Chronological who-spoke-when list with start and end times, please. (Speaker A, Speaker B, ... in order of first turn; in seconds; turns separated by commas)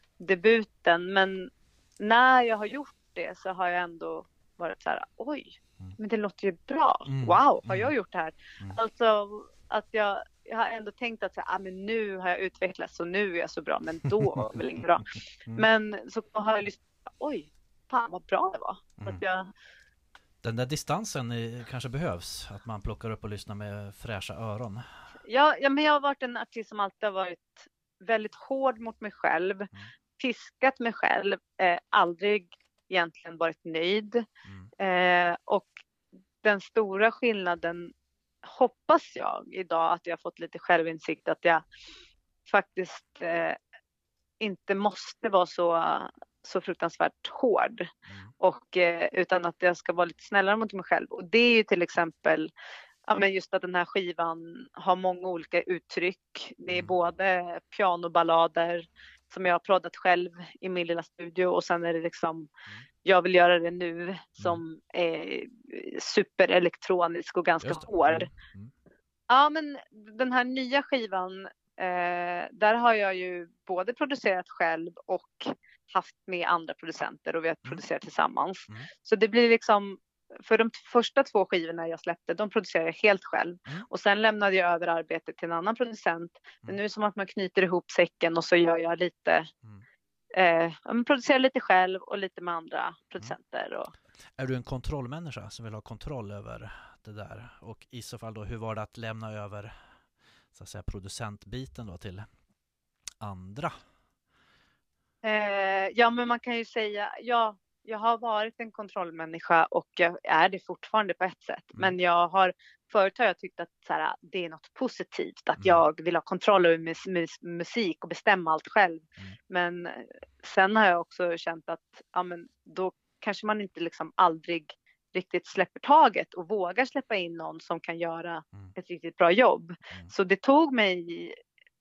Speaker A: 0.2-19.5, Speaker B: 7.1-7.9, Speaker B: 20.4-24.9, Speaker A: 25.3-34.3, Speaker B: 34.5-34.7, Speaker A: 34.8-35.8, Speaker A: 36.4-37.9, Speaker A: 38.4-41.6, Speaker A: 42.5-43.6, Speaker A: 44.4-52.5, Speaker A: 53.1-62.5, Speaker A: 63.0-68.3, Speaker B: 67.6-68.7, Speaker A: 69.3-89.5, Speaker A: 90.3-93.9, Speaker B: 94.4-99.8, Speaker B: 100.5-102.3, Speaker B: 103.2-103.8, Speaker A: 105.2-131.4